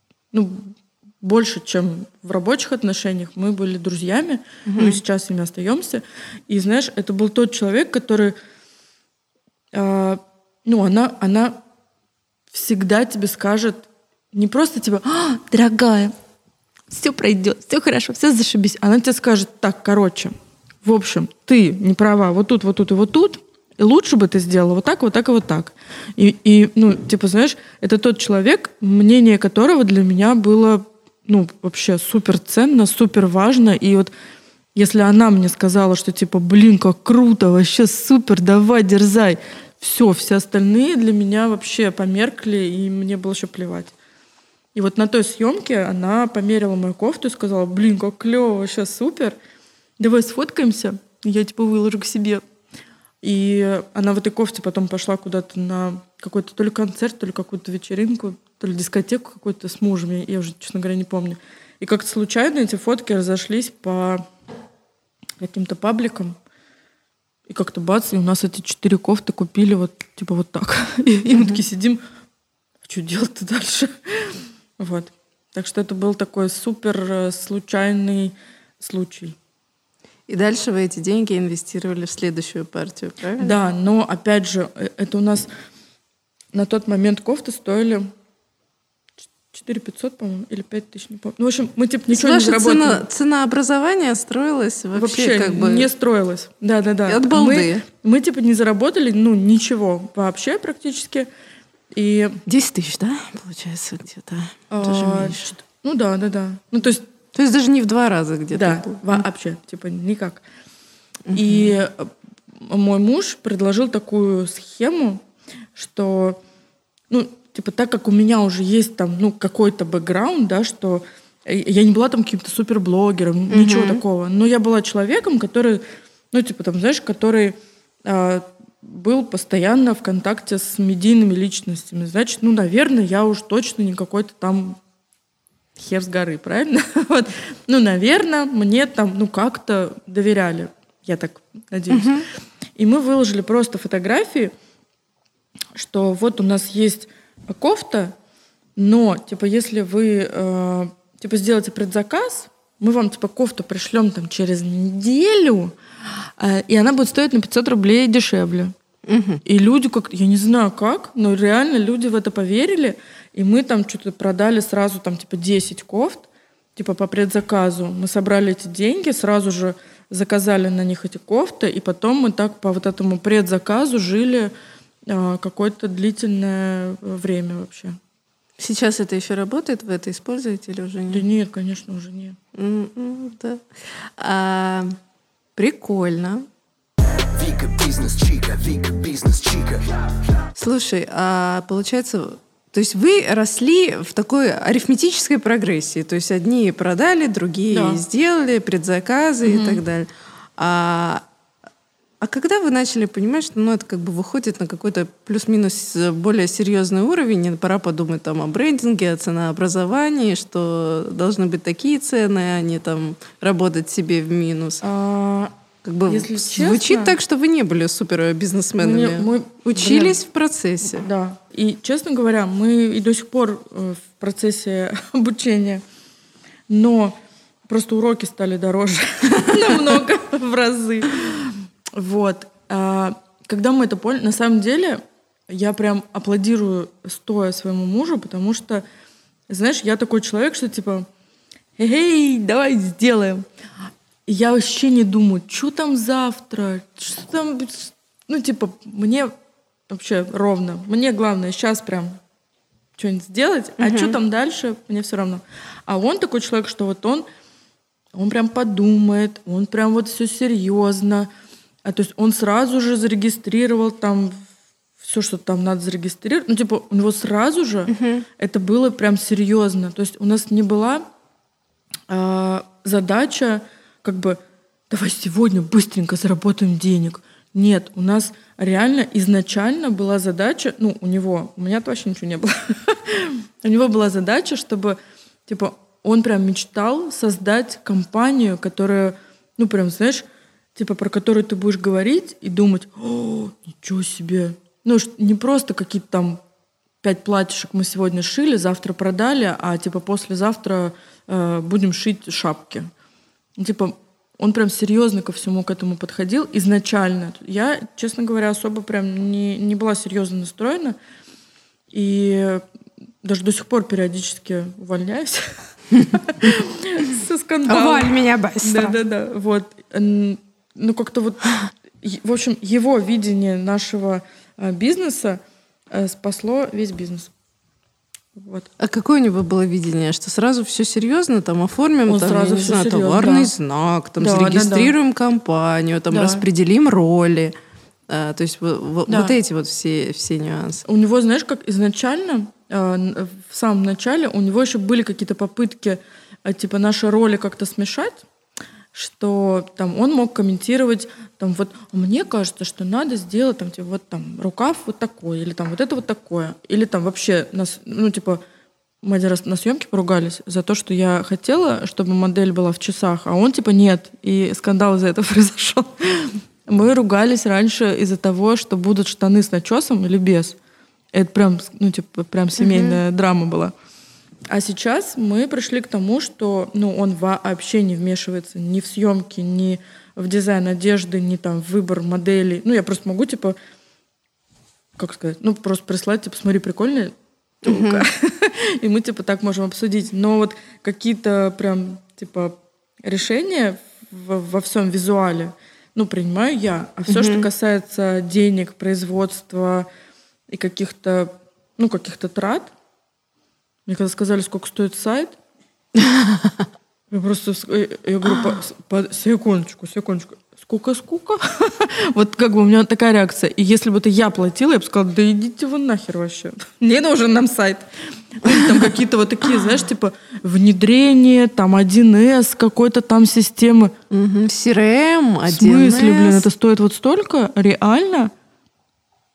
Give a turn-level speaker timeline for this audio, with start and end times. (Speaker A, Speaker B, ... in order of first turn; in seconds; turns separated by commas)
Speaker A: 0.3-8.3, Speaker B: 4.7-5.0, Speaker A: 9.7-11.6, Speaker A: 12.5-16.1, Speaker A: 16.9-34.1, Speaker A: 34.7-43.9, Speaker A: 44.7-49.4, Speaker A: 50.0-52.4, Speaker A: 53.2-64.2, Speaker A: 65.4-66.4, Speaker A: 67.5-72.0, Speaker B: 71.3-71.6, Speaker A: 72.8-79.4, Speaker B: 80.3-83.6, Speaker A: 83.4-85.5, Speaker A: 86.5-88.1, Speaker A: 89.5-93.0, Speaker B: 92.1-95.9, Speaker A: 95.0-101.3, Speaker B: 97.1-97.8, Speaker A: 101.9-102.4, Speaker B: 102.5-105.5, Speaker A: 104.7-107.0, Speaker B: 107.3-109.2, Speaker A: 108.5-110.4, Speaker B: 111.3-111.8, Speaker A: 111.3-115.2, Speaker A: 115.7-116.4, Speaker A: 117.1-134.8, Speaker B: 123.5-124.0, Speaker A: 135.8-142.2, Speaker B: 141.9-142.3, Speaker A: 142.8-144.5, Speaker A: 145.7-148.1, Speaker A: 148.8-155.8, Speaker A: 156.4-158.7, Speaker B: 159.1-159.4, Speaker A: 159.4-174.5, Speaker A: 175.1-178.0, Speaker B: 178.6-181.2, Speaker A: 181.1-182.4, Speaker B: 182.6-184.9, Speaker B: 185.6-186.5, Speaker C: 187.2-190.2, Speaker B: 190.6-201.2, Speaker A: 197.7-198.0, Speaker A: 199.4-199.8, Speaker B: 202.2-214.8, Speaker A: 214.8-215.5, Speaker B: 215.8-221.1, Speaker A: 216.1-217.2, Speaker A: 218.8-220.2, Speaker A: 220.9-225.8, Speaker A: 226.7-227.2, Speaker A: 227.7-238.8, Speaker A: 239.5-241.1, Speaker A: 241.8-243.4, Speaker A: 244.3-249.3, Speaker A: 249.9-252.2, Speaker A: 253.0-257.3, Speaker B: 253.8-254.2, Speaker A: 258.1-261.3, Speaker A: 261.9-264.4, Speaker A: 265.0-271.1, Speaker B: 267.9-268.3, Speaker A: 272.1-296.4, Speaker A: 297.0-302.9, Speaker A: 303.6-310.9, Speaker A: 311.9-312.6, Speaker A: 313.2-315.5, Speaker B: 315.9-316.5, Speaker A: 316.3-327.3, Speaker B: 317.7-319.0, Speaker A: 328.4-328.7, Speaker B: 328.8-337.5, Speaker A: 332.1-333.5, Speaker A: 334.2-334.9, Speaker A: 336.1-336.4, Speaker B: 338.1-340.9, Speaker A: 339.1-339.4, Speaker A: 340.9-348.2, Speaker A: 348.9-358.4, Speaker A: 359.0-370.6, Speaker A: 371.1-373.7, Speaker B: 372.6-373.0, Speaker A: 374.5-383.6, Speaker A: 385.0-399.9, Speaker B: 387.7-388.1, Speaker B: 397.1-397.5, Speaker A: 400.5-402.7, Speaker A: 403.9-405.4, Speaker B: 406.0-406.6, Speaker A: 407.1-423.9, Speaker B: 418.5-418.8, Speaker B: 424.1-426.4, Speaker A: 425.5-428.3